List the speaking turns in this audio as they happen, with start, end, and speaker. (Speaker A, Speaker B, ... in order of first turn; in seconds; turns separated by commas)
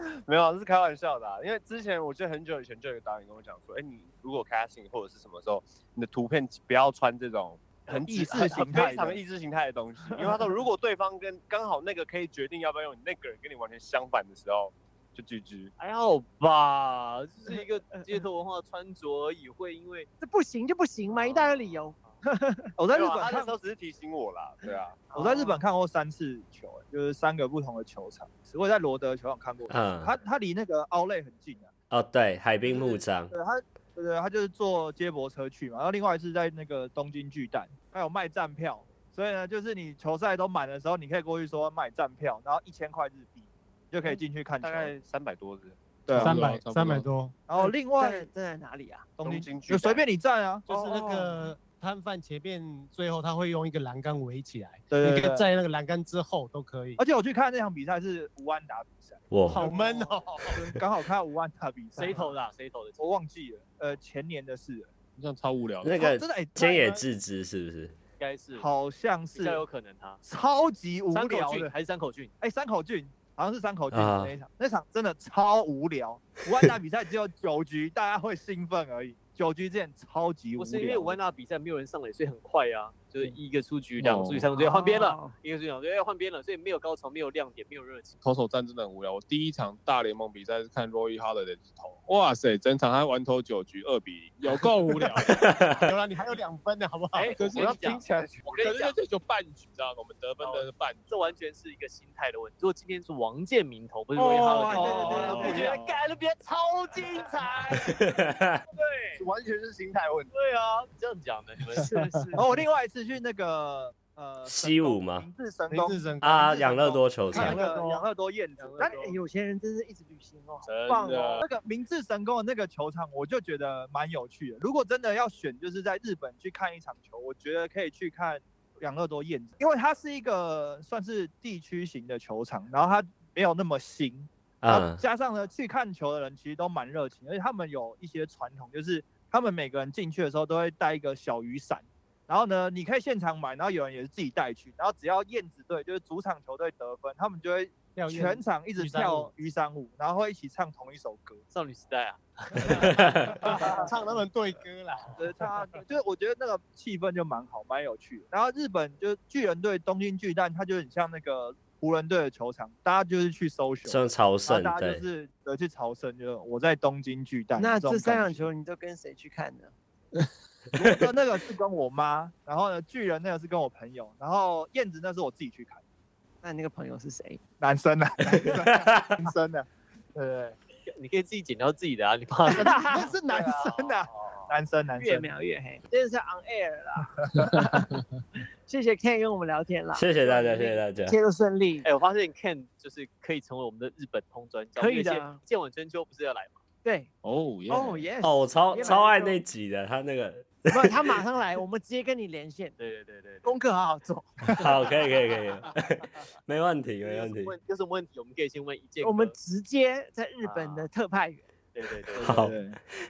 Speaker A: 0.2-15.7, Speaker B: 7.9-8.7, Speaker C: 7.9-9.2, Speaker B: 15.8-20.1, Speaker D: 20.2-22.7, Speaker B: 21.1-22.2, Speaker C: 22.8-23.5, Speaker A: 22.9-25.0, Speaker D: 25.1-25.6, Speaker C: 25.1-31.7, Speaker E: 29.7-30.1, Speaker E: 31.9-33.3, Speaker C: 32.6-44.9, Speaker A: 44.6-45.8, Speaker C: 46.0-46.4, Speaker F: 46.1-47.1, Speaker G: 46.1-47.4, Speaker C: 47.5-48.3, Speaker D: 47.5-49.1, Speaker A: 49.2-50.0, Speaker C: 49.2-51.0, Speaker D: 50.7-51.5, Speaker G: 50.7-57.0, Speaker C: 54.9-55.5, Speaker C: 57.0-59.7, Speaker E: 59.3-59.7, Speaker G: 59.5-60.6, Speaker A: 59.7-60.0, Speaker C: 60.5-62.3, Speaker B: 61.9-63.0, Speaker C: 63.0-64.9, Speaker F: 65.2-66.0, Speaker E: 65.8-68.0, Speaker C: 65.9-66.9, Speaker G: 66.6-67.0, Speaker B: 68.2-68.7, Speaker C: 68.5-69.6, Speaker B: 69.3-70.2, Speaker C: 70.2-71.7, Speaker B: 71.1-72.3, Speaker C: 72.4-81.2, Speaker E: 73.9-74.3, Speaker B: 80.5-88.2, Speaker F: 84.2-84.4, Speaker D: 84.5-85.3, Speaker F: 88.2-95.3, Speaker E: 95.4-95.9, Speaker G: 95.7-97.4, Speaker B: 97.1-99.0, Speaker F: 97.3-97.9, Speaker A: 97.4-98.8, Speaker F: 98.6-101.2, Speaker B: 100.4-108.2, Speaker D: 104.1-105.7, Speaker G: 104.6-104.9, Speaker C: 104.7-105.8, Speaker A: 104.8-105.8, Speaker E: 107.9-108.6, Speaker B: 108.7-109.2, Speaker A: 109.1-110.3, Speaker B: 110.3-112.2, Speaker D: 111.8-112.4, Speaker C: 112.3-119.2, Speaker E: 114.4-115.3, Speaker G: 115.8-116.7, Speaker E: 116.2-117.6, Speaker G: 117.3-118.0, Speaker D: 117.3-117.9, Speaker B: 118.6-119.1, Speaker D: 118.8-121.4, Speaker B: 120.6-121.5, Speaker C: 121.4-151.4, Speaker E: 134.6-135.0, Speaker G: 147.9-149.3, Speaker B: 151.5-153.8, Speaker G: 152.6-155.6, Speaker C: 155.2-168.5, Speaker E: 163.8-165.0, Speaker D: 167.6-169.7, Speaker C: 170.7-175.8, Speaker D: 176.4-177.4, Speaker C: 177.6-180.6, Speaker E: 178.8-179.2, Speaker B: 180.9-184.5, Speaker C: 182.4-185.3, Speaker D: 182.5-183.1, Speaker D: 184.9-187.9, Speaker D: 188.7-191.9, Speaker E: 189.9-191.2, Speaker B: 191.8-196.6, Speaker D: 194.8-195.4, Speaker D: 196.8-197.1, Speaker F: 197.2-198.1, Speaker D: 197.7-199.4, Speaker E: 198.2-201.2, Speaker D: 200.7-202.7, Speaker B: 202.8-203.4, Speaker D: 203.4-204.8, Speaker E: 204.5-207.6, Speaker B: 207.0-209.3, Speaker D: 209.0-211.4, Speaker B: 210.4-210.9, Speaker B: 211.7-212.4, Speaker C: 212.2-212.8, Speaker E: 212.2-212.6